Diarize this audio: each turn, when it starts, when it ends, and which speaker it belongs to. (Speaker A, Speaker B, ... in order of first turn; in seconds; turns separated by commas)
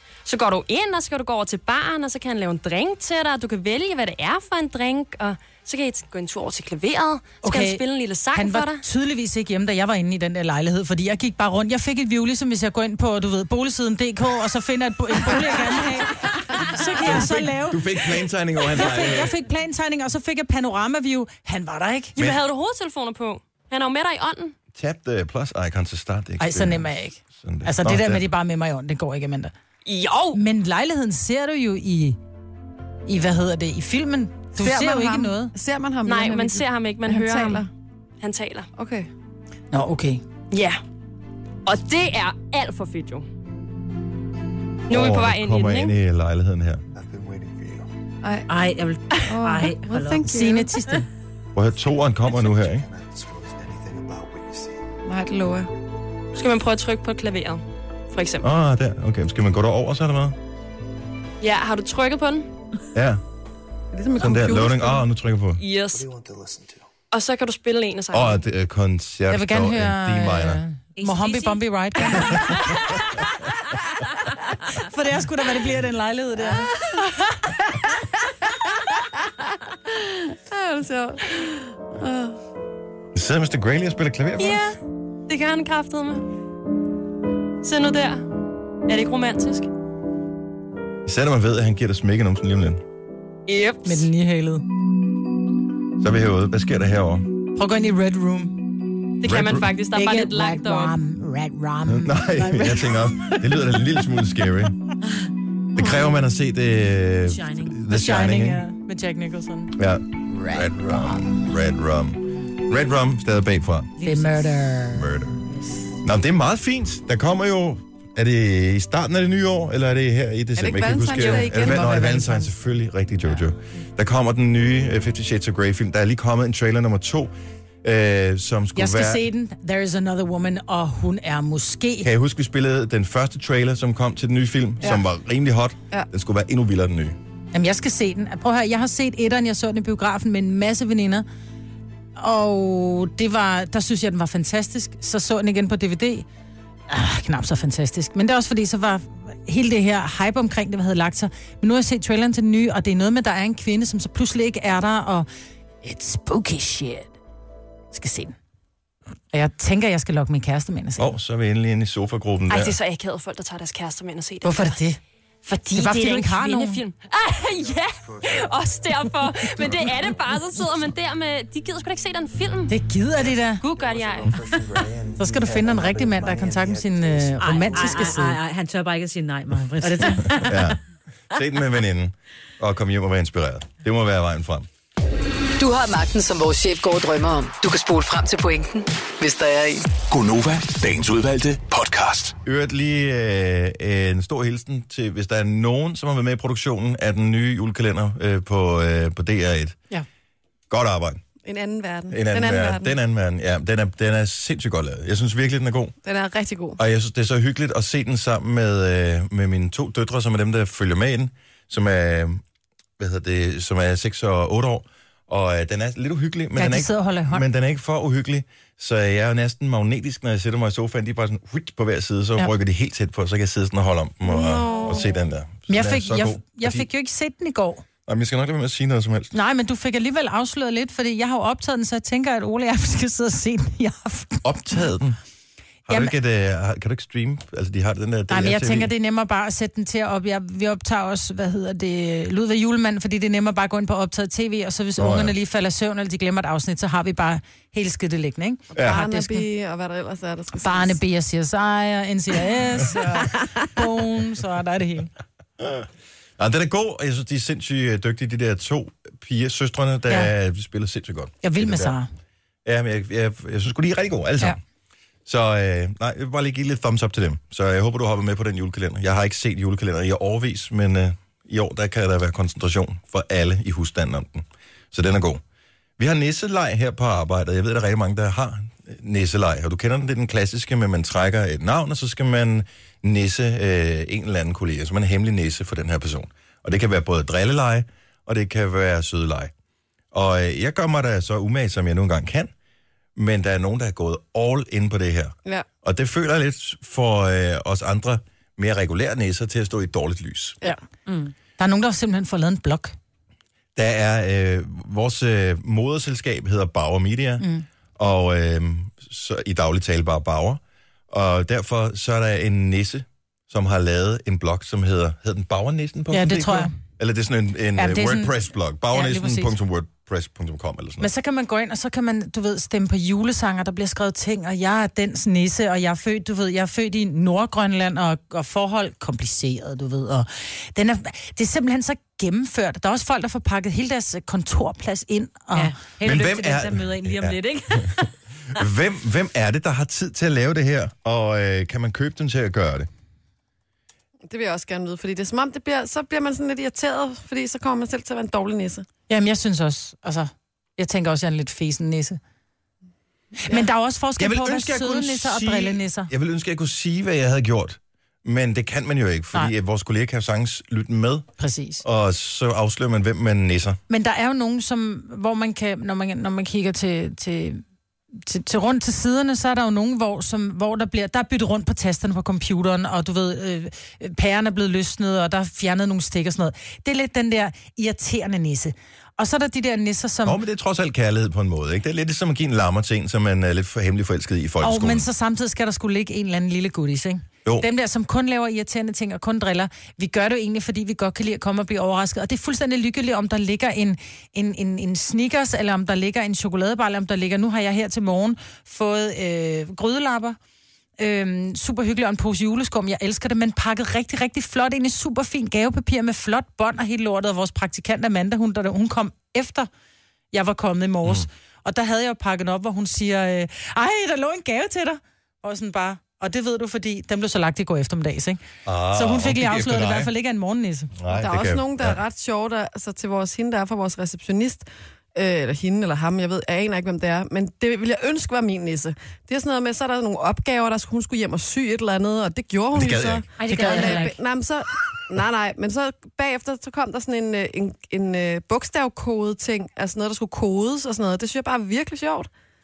Speaker A: 0.2-8.8, Speaker B: 7.4-7.8, Speaker B: 8.3-18.0, Speaker C: 17.0-19.3, Speaker B: 18.7-22.3, Speaker A: 22.2-24.6, Speaker C: 24.7-28.2, Speaker B: 26.4-29.5, Speaker A: 29.9-30.4, Speaker B: 30.3-32.2, Speaker B: 33.1-35.5, Speaker D: 34.6-37.7, Speaker A: 36.0-37.7, Speaker A: 38.2-38.7, Speaker D: 38.8-39.1, Speaker B: 39.7-40.2, Speaker A: 40.5-40.8, Speaker A: 41.7-43.3, Speaker C: 44.9-46.8, Speaker A: 44.9-45.9, Speaker E: 47.3-47.8, Speaker F: 48.5-50.2, Speaker D: 49.3-50.7, Speaker B: 50.2-51.1, Speaker C: 51.5-52.9, Speaker E: 53.0-54.6, Speaker D: 55.0-55.7, Speaker A: 56.4-58.5, Speaker C: 58.4-60.4, Speaker A: 61.4-62.5, Speaker C: 62.9-63.2, Speaker D: 63.9-65.0, Speaker C: 64.2-65.6, Speaker A: 65.6-66.1, Speaker E: 66.0-66.6, Speaker A: 67.1-68.4, Speaker C: 68.1-70.6, Speaker B: 69.3-72.7, Speaker F: 71.0-72.8, Speaker B: 74.7-76.7, Speaker D: 77.8-79.0, Speaker D: 79.9-82.4, Speaker C: 83.2-84.7, Speaker A: 84.4-86.2, Speaker A: 87.6-88.3, Speaker A: 88.9-89.7, Speaker C: 91.1-92.8, Speaker A: 93.5-94.1, Speaker B: 93.8-94.7, Speaker C: 96.0-97.3, Speaker B: 97.6-98.7, Speaker A: 99.2-101.0, Speaker C: 99.3-99.7, Speaker B: 99.9-103.7, Speaker C: 101.9-104.8, Speaker C: 105.8-108.6, Speaker F: 107.3-107.8, Speaker B: 107.9-109.8, Speaker C: 109.8-113.9, Speaker B: 110.3-111.3, Speaker F: 114.0-114.7, Speaker B: 114.0-115.8, Speaker C: 114.9-115.4, Speaker C: 116.0-129.3, Speaker D: 120.6-122.5, Speaker B: 121.7-122.0, Speaker B: 128.8-132.1, Speaker C: 132.0-137.2, Speaker B: 137.5-141.3, Speaker B: 142.2-146.3, Speaker B: 146.9-155.3, Speaker B: 155.8-157.1, Speaker B: 157.9-158.4, Speaker B: 159.3-161.2, Speaker C: 161.0-162.8, Speaker A: 162.5-164.8, Speaker B: 164.4-165.0, Speaker A: 165.4-172.8, Speaker B: 165.7-166.8, Speaker B: 172.7-173.7, Speaker A: 173.6-174.6, Speaker E: 174.7-175.0, Speaker B: 175.2-178.4, Speaker F: 177.4-180.7, Speaker B: 179.8-180.5, Speaker C: 180.4-184.7, Speaker G: 185.6-189.9, Speaker E: 190.1-192.4, Speaker C: 192.4-199.8, Speaker C: 200.7-201.2, Speaker D: 201.4-202.9, Speaker C: 202.1-206.0, Speaker D: 206.0-206.8, Speaker C: 206.8-212.4, Speaker C: 213.0-226.9, Speaker B: 216.6-217.4, Speaker D: 224.3-225.2, Speaker B: 225.7-227.8, Speaker C: 228.1-229.4, Speaker B: 229.3-234.4, Speaker C: 234.4-235.2, Speaker C: 235.9-238.9, Speaker B: 235.9-236.1, Speaker B: 238.3-249.5, Speaker C: 245.0-245.3, Speaker C: 248.7-249.0, Speaker D: 248.8-251.0, Speaker B: 250.6-255.1, Speaker D: 252.8-253.4, Speaker C: 255.6-255.9, Speaker C: 256.4-262.0, Speaker B: 261.4-262.1, Speaker C: 262.6-264.6, Speaker C: 265.3-275.4, Speaker C: 276.0-289.5, Speaker C: 290.1-292.5, Speaker C: 293.2-300.6, Speaker B: 301.6-302.9, Speaker C: 303.8-321.1, Speaker B: 307.4-307.6, Speaker B: 316.1-316.7, Speaker B: 317.8-318.4, Speaker B: 318.9-319.6, Speaker B: 321.0-335.7, Speaker F: 335.5-338.1, Speaker C: 336.0-337.4, Speaker C: 338.5-342.9, Speaker D: 344.3-348.9, Speaker B: 349.1-352.2, Speaker B: 353.4-356.1, Speaker C: 354.2-361.3, Speaker B: 361.4-361.8, Speaker C: 361.8-363.8, Speaker B: 363.9-367.6, Speaker B: 368.1-380.4, Speaker C: 380.2-385.1, Speaker B: 384.6-400.4, Speaker B: 401.0-409.7, Speaker B: 410.3-420.9, Speaker C: 418.7-420.1, Speaker C: 420.9-422.0, Speaker D: 421.1-442.3, Speaker C: 432.7-433.2, Speaker F: 433.4-434.2, Speaker B: 433.5-434.1